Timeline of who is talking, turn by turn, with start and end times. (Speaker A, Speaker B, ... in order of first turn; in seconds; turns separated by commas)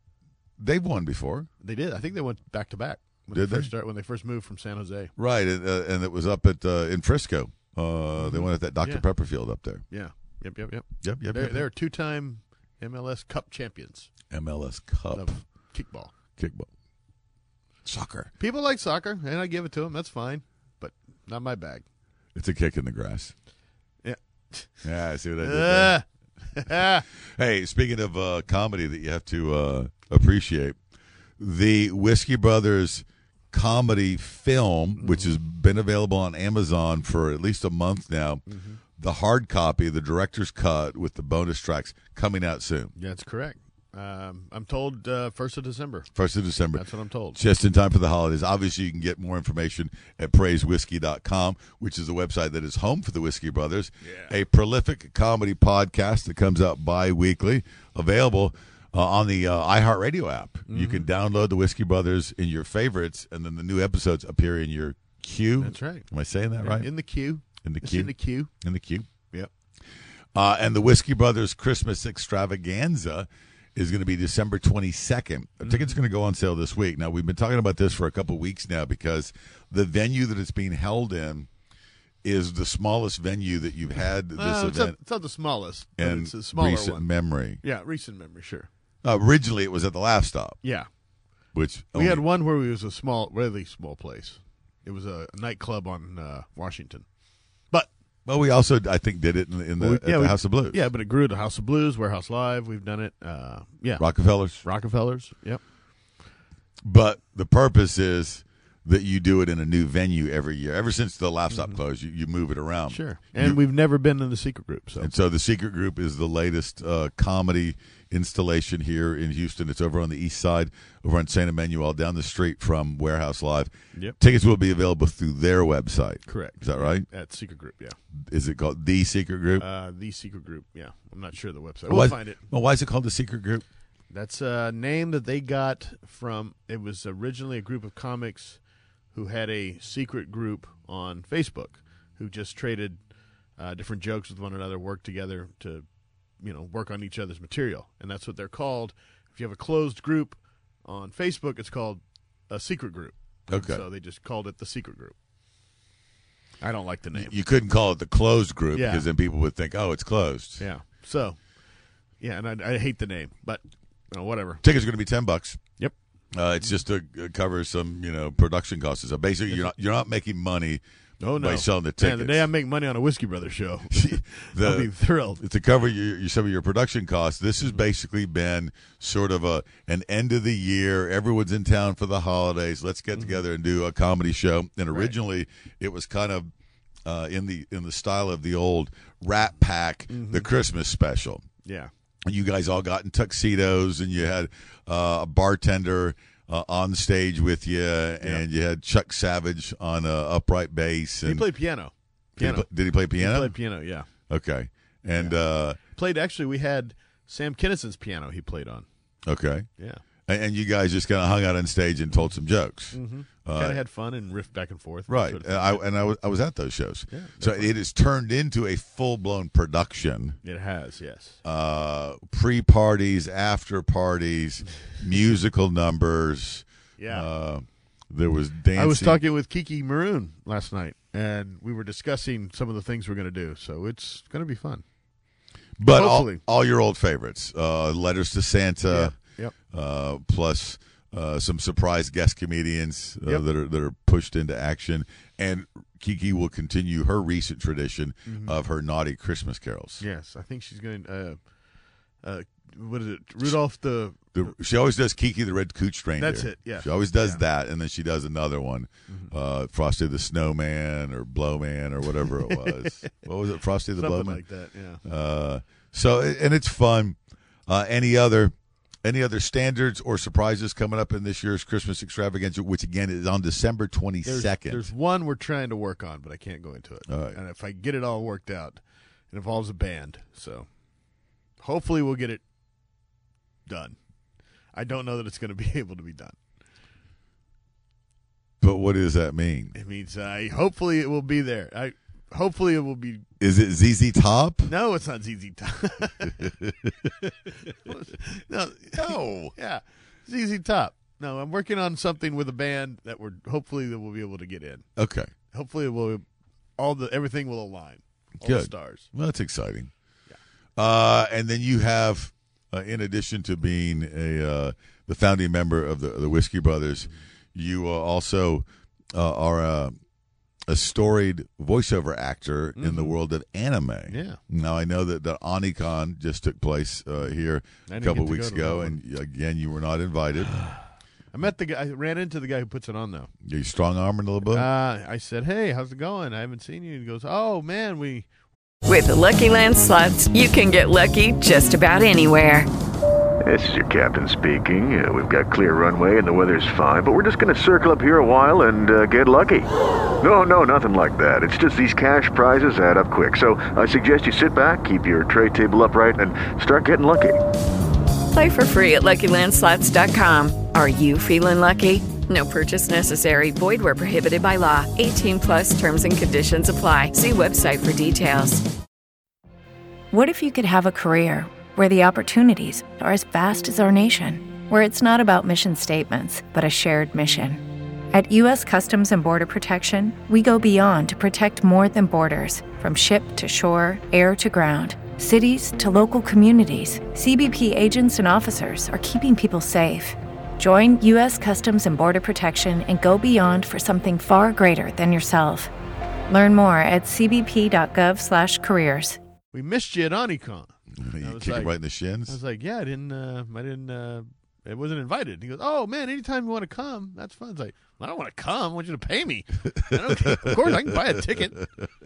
Speaker A: 0.6-1.5, Speaker B: 1.6-5.1, Speaker A: 3.3-3.7, Speaker A: 5.2-9.8, Speaker B: 8.2-9.1, Speaker B: 9.9-14.1, Speaker A: 11.0-11.7, Speaker A: 14.3-15.4, Speaker B: 15.1-16.1, Speaker A: 16.4-16.7, Speaker A: 17.9-18.3, Speaker B: 18.4-21.9, Speaker A: 22.4-23.3, Speaker B: 24.0-24.9, Speaker A: 24.8-25.9, Speaker B: 25.4-27.1, Speaker A: 27.4-30.8, Speaker A: 31.4-38.4, Speaker B: 35.0-35.3, Speaker B: 38.5-38.8, Speaker A: 39.0-42.9, Speaker B: 43.0-46.1, Speaker A: 46.1-66.9, Speaker B: 46.7-47.4, Speaker B: 54.0-54.4, Speaker B: 60.7-61.1, Speaker B: 65.6-66.1, Speaker B: 66.6-68.5, Speaker A: 67.6-69.1, Speaker A: 70.3-81.5, Speaker B: 75.6-76.0, Speaker A: 82.2-85.0, Speaker B: 84.4-87.1, Speaker A: 86.0-87.6, Speaker B: 87.6-88.7, Speaker A: 89.0-90.6, Speaker B: 90.6-90.9, Speaker A: 91.5-92.2, Speaker B: 91.9-97.1, Speaker A: 98.2-100.8, Speaker B: 99.8-104.1, Speaker A: 104.0-104.7, Speaker B: 104.6-105.6, Speaker A: 106.8-113.6, Speaker B: 111.5-111.8, Speaker B: 112.9-115.1, Speaker A: 115.0-127.1, Speaker B: 126.3-128.0, Speaker A: 128.2-129.7, Speaker B: 129.6-132.4, Speaker A: 131.9-133.6, Speaker B: 134.1-138.6, Speaker B: 139.1-143.0, Speaker B: 143.6-145.9, Speaker B: 146.4-155.2, Speaker A: 153.5-153.8, Speaker B: 156.6-157.3, Speaker A: 157.1-160.7, Speaker B: 158.7-159.1, Speaker B: 160.6-161.4, Speaker B: 162.2-164.6, Speaker A: 164.6-165.7, Speaker A: 166.3-170.8, Speaker B: 171.2-175.4, Speaker A: 171.4-172.5, Speaker A: 174.0-186.5, Speaker B: 183.1-183.4, Speaker A: 187.1-191.5, Speaker B: 190.1-190.5, Speaker B: 191.6-191.9, Speaker A: 192.2-201.5, Speaker B: 201.2-202.7, Speaker A: 202.4-203.6, Speaker B: 203.2-204.1, Speaker A: 204.3-205.8, Speaker B: 205.1-208.9, Speaker A: 209.3-209.7, Speaker A: 210.3-213.8, Speaker B: 212.9-215.8, Speaker A: 215.1-220.4, Speaker B: 217.1-217.7, Speaker B: 220.4-221.4, Speaker A: 221.4-229.2, Speaker B: 227.0-227.3, Speaker B: 228.8-234.8, Speaker A: 235.8-239.1, Speaker B: 235.8-236.4, Speaker B: 238.9-239.6, Speaker A: 239.7-250.0, Speaker B: 248.3-248.6, Speaker B: 250.0-251.4, Speaker B: 252.2-254.3, Speaker A: 254.3-264.4, Speaker B: 256.2-257.4, Speaker B: 262.2-263.1, Speaker B: 264.0-265.0, Speaker A: 265.0-274.9, Speaker B: 274.2-280.7, Speaker A: 277.1-277.4, Speaker B: 281.6-282.4, Speaker B: 283.7-284.0, Speaker B: 284.7-286.4, Speaker A: 288.6-289.7, Speaker B: 289.8-293.2, Speaker A: 293.4-294.7, Speaker B: 294.7-296.4, Speaker A: 296.4-296.9, Speaker B: 297.9-304.9, Speaker A: 299.0-299.6, Speaker A: 305.0-305.3, Speaker B: 305.5-306.2, Speaker B: 306.8-309.1, Speaker A: 308.4-309.9, Speaker A: 310.8-320.0, Speaker A: 320.7-330.5, Speaker B: 322.8-323.2, Speaker B: 324.1-324.4, Speaker B: 327.9-329.0, Speaker B: 331.3-333.3, Speaker A: 333.4-334.7, Speaker B: 334.5-338.3, Speaker C: 338.9-342.7, Speaker D: 343.4-349.7, Speaker D: 350.2-357.4, Speaker C: 358.3-368.6, Speaker E: 370.1-395.7, Speaker E: 396.3-399.2, Speaker B: 399.5-401.7, Speaker A: 401.0-402.4, Speaker B: 402.3-411.6, Speaker A: 409.9-410.9